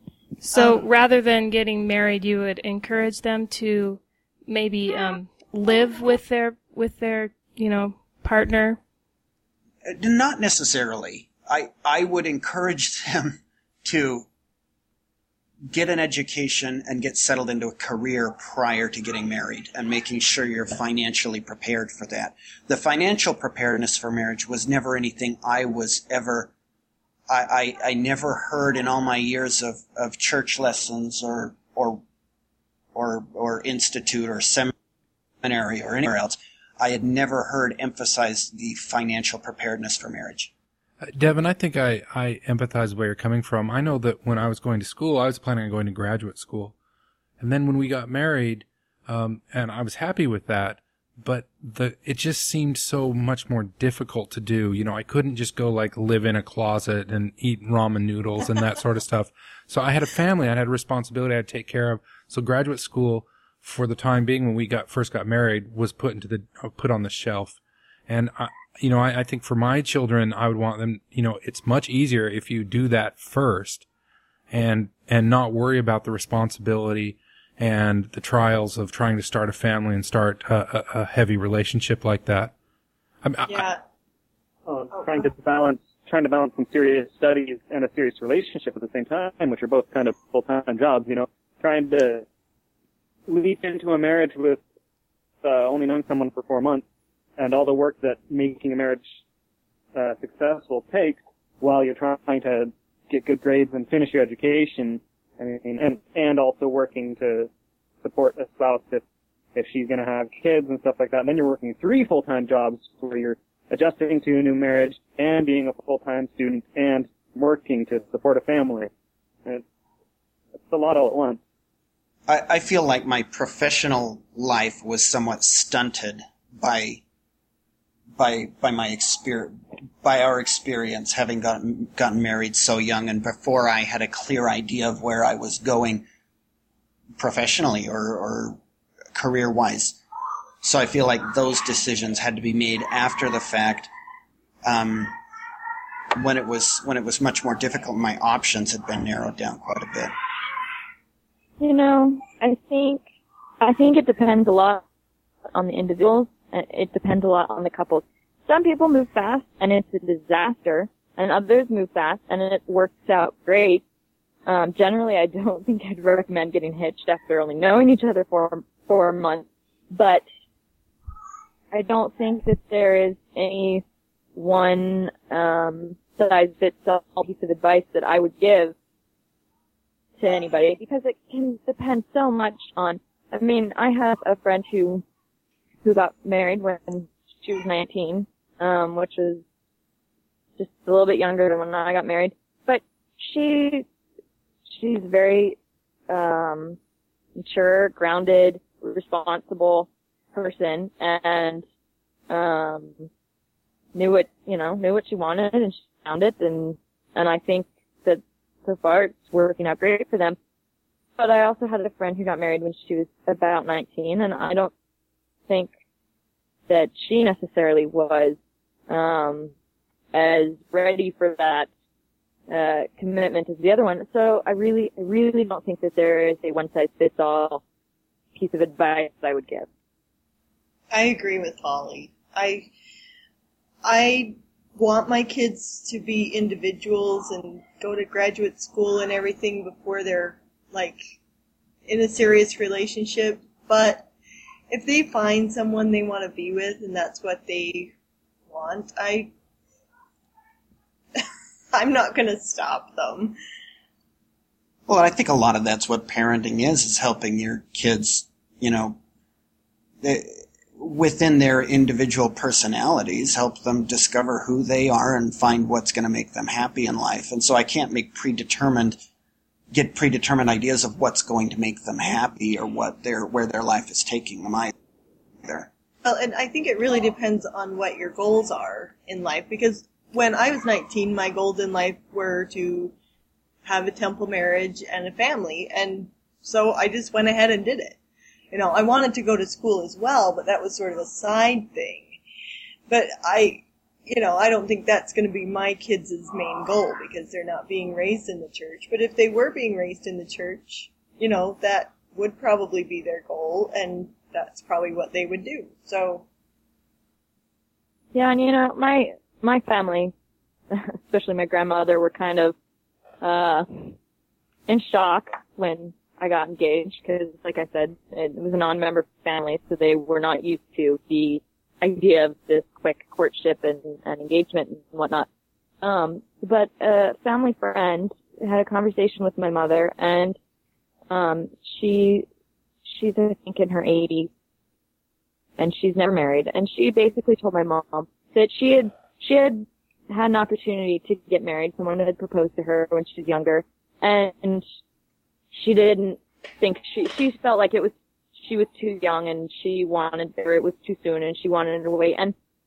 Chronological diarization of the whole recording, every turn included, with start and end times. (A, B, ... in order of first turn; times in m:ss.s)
0:00.4-0:08.8 A
0:00.5-0:00.8 B
0:09.8-0:14.3 C
0:15.7-0:26.5 C
0:27.3-0:32.0 C
0:32.9-0:34.7 C
0:35.4-0:40.5 C
0:41.0-0:46.7 D
0:47.4-1:13.8 D
1:14.5-1:22.5 D
1:23.2-1:23.7 D
1:23.5-1:23.8 B
1:24.6-1:32.2 E
1:24.9-1:25.3 B
1:33.3-1:34.6 E
1:35.4-1:36.8 E
1:37.4-1:39.2 E
1:39.9-1:47.5 E
1:48.0-1:49.0 E
1:49.5-1:58.9 E
2:00.5-2:01.4 E
2:02.3-2:07.0 C
2:08.2-2:16.0 C
2:17.2-2:18.6 C
2:19.1-2:20.0 C
2:20.6-2:23.9 C
2:24.6-2:25.2 C
2:26.2-2:30.1 C
2:31.6-2:33.0 F
2:33.6-2:34.8 F
2:35.5-2:43.8 F
2:44.4-2:50.2 F
2:51.7-2:53.8 F
2:54.4-2:58.7 F
3:00.2-3:05.0 F
3:05.8-3:09.4 F
3:10.6-3:13.8 F
3:14.7-3:15.6 F
3:16.1-3:16.8 F
3:17.4-3:21.6 F
3:22.3-3:23.1 F
3:23.9-3:30.4 F
3:31.2-3:34.7 F
3:36.7-3:38.4 F
3:38.9-3:39.5 F
3:40.1-3:41.7 F
3:42.5-3:47.6 F
3:48.3-3:49.7 F
3:50.9-3:52.7 B
3:53.8-4:01.0 B
4:01.9-4:04.1 B
4:04.7-4:07.9 B
4:08.5-4:09.3 B
4:11.2-4:13.4 B
4:14.9-4:19.0 C
4:20.0-4:29.0 C
4:29.7-4:34.7 C
4:36.0-4:42.9 B
4:43.6-4:48.0 B
4:48.5-4:52.1 B
4:52.9-5:06.2 B
5:08.1-5:10.1 F
5:10.7-5:12.5 F
5:13.2-5:13.9 F
5:14.7-5:25.3 F
5:25.8-5:30.4 F
5:31.1-5:32.2 F
5:32.8-5:34.3 F
5:35.6-5:44.6 F
5:45.5-5:52.3 F